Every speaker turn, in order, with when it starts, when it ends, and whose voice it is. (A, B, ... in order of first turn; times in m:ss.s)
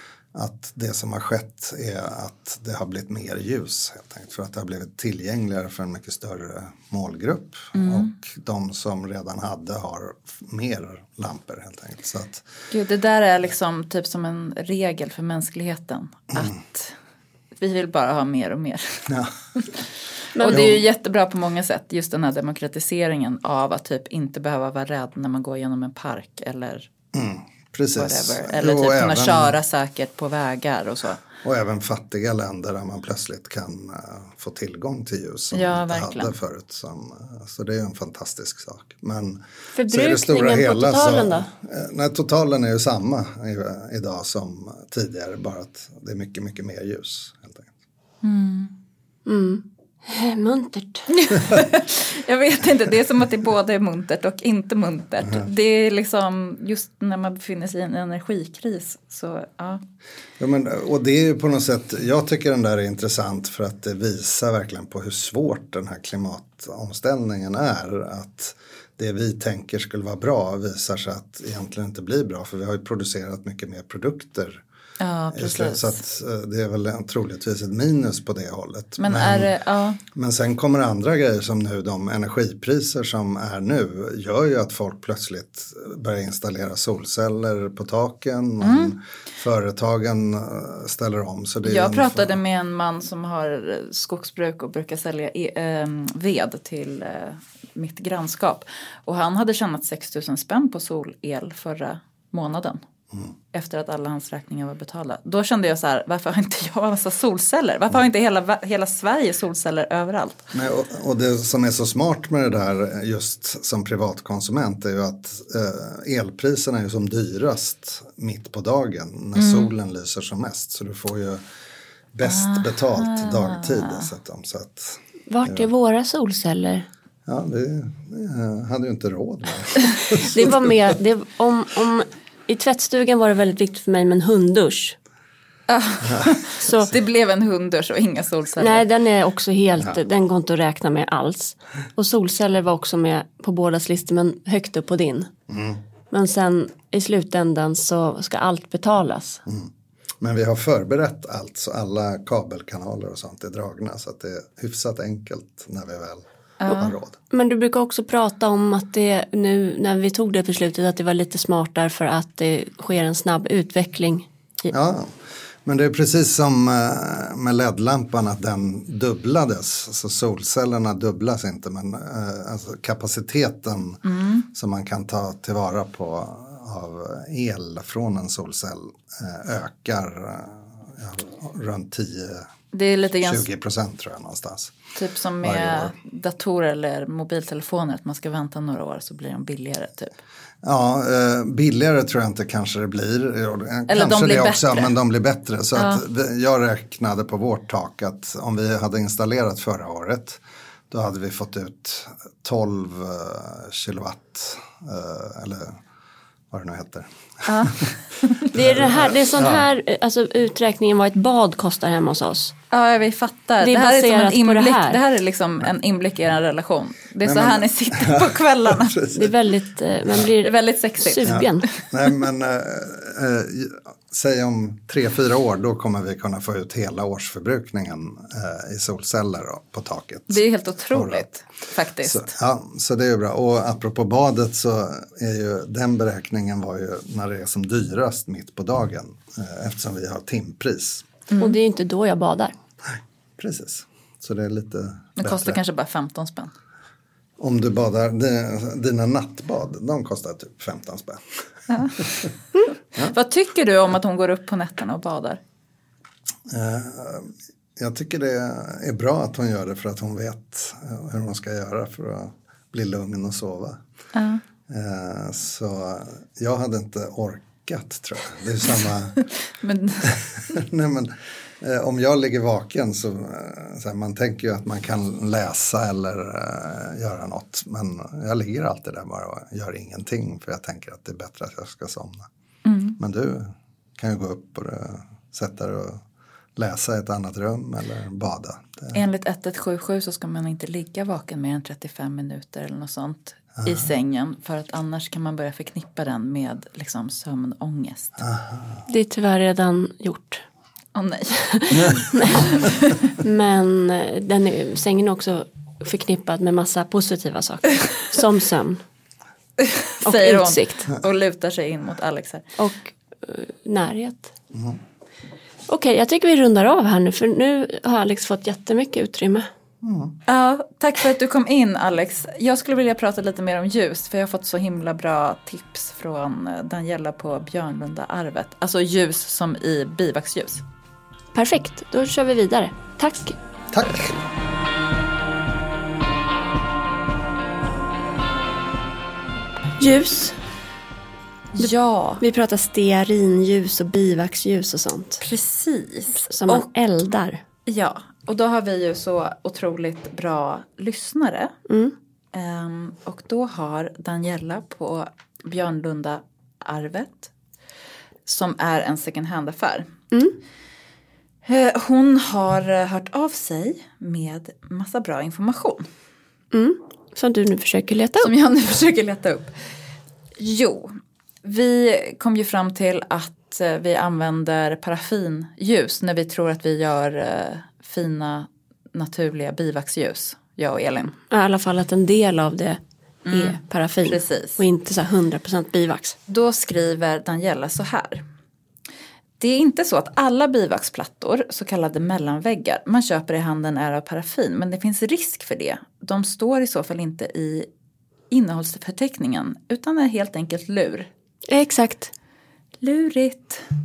0:00.3-0:12.5 A
0:07.8-0:08.1 B
0:12.7-0:16.9 B
0:17.6-0:19.7 B
0:20.4-0:20.7 C
0:20.4-0:26.9 B
0:20.5-0:20.7 A
0:27.1-0:29.6 A
0:28.0-0:31.2 B
0:31.4-0:47.7 A
0:35.5-0:36.4 B
0:39.7-0:41.5 C
0:48.2-0:48.7 B
0:49.3-0:51.1 C
0:51.1-0:59.8 B
1:00.4-1:14.6 A
1:15.0-1:16.0 B
1:15.3-1:19.5 A
1:19.0-1:20.0 B
1:20.1-1:32.3 A
1:28.6-1:29.0 B
1:31.6-1:42.8 B
1:43.5-1:50.5 B
1:50.5-2:01.4 A
1:59.4-1:59.7 B
2:02.1-2:05.7 A
2:02.2-2:04.1 B
2:05.3-2:06.9 C
2:07.3-2:10.7 A
2:10.1-2:15.0 C
2:15.7-2:18.8 B
2:18.6-2:25.3 C
2:25.5-2:25.8 A
2:26.1-2:29.4 C
2:30.2-2:37.2 A
2:36.6-2:37.0 B
2:37.3-2:44.7 C
2:44.7-3:02.5 A
2:54.1-2:54.4 B
3:02.7-3:03.5 B
3:03.2-3:04.8 A
3:05.0-3:10.1 B
3:05.4-3:05.9 A
3:10.6-3:25.8 A
3:13.9-3:14.9 B
3:15.8-3:16.0 B
3:26.5-3:27.9 A
3:27.5-3:28.5 B
3:28.5-3:29.6 A
3:28.5-3:32.6 C
3:32.7-3:39.1 B
3:33.6-3:35.0 C
3:37.2-3:39.3 A
3:39.1-3:41.7 C
3:40.2-3:41.4 B
3:41.3-3:51.3 A
3:50.3-3:52.3 B
3:52.0-4:01.1 A
4:01.3-4:01.6 B
4:01.4-4:02.5 C
4:02.8-4:05.6 A
4:05.2-4:06.5 B
4:07.4-4:11.2 A
4:11.7-4:12.0 B
4:13.0-4:15.4 B
4:16.5-4:23.8 A
4:24.1-4:24.4 B
4:24.7-4:29.2 A
4:29.5-4:30.2 B
4:30.0-4:42.3 A
4:42.6-4:43.0 B
4:43.0-4:46.0 A
4:46.6-4:49.0 A
4:48.9-4:58.2 B
4:53.6-4:53.9 A
4:58.2-4:58.8 A
4:58.9-5:00.4 C
5:00.9-5:03.0 B
5:01.5-5:02.6 C
5:03.2-5:08.8 C
5:09.6-5:12.4 B
5:10.0-5:10.9 C
5:12.6-5:14.3 C
5:15.7-5:19.5 C
5:19.8-5:20.2 A
5:20.3-5:30.6 B
5:31.3-5:33.4 C
5:33.7-5:34.2 A
5:39.8-5:40.4 C
5:41.6-5:42.2 B
5:42.2-5:45.2 C
5:45.2-5:46.6 B
5:46.3-5:47.4 C
5:47.7-5:51.5 B
5:51.7-5:52.0 C
5:52.3-5:57.3 B
5:58.3-5:59.9 B
6:00.1-6:00.4 C
6:01.4-6:05.9 B
6:06.5-6:08.3 C
6:08.2-6:09.5 B
6:10.4-6:21.2 B
6:21.3-6:26.2 C
6:23.3-6:24.6 B
6:26.3-6:28.3 B
6:29.4-6:37.7 B
6:38.3-6:41.1 B
6:41.5-6:42.1 C
6:42.8-6:43.6 B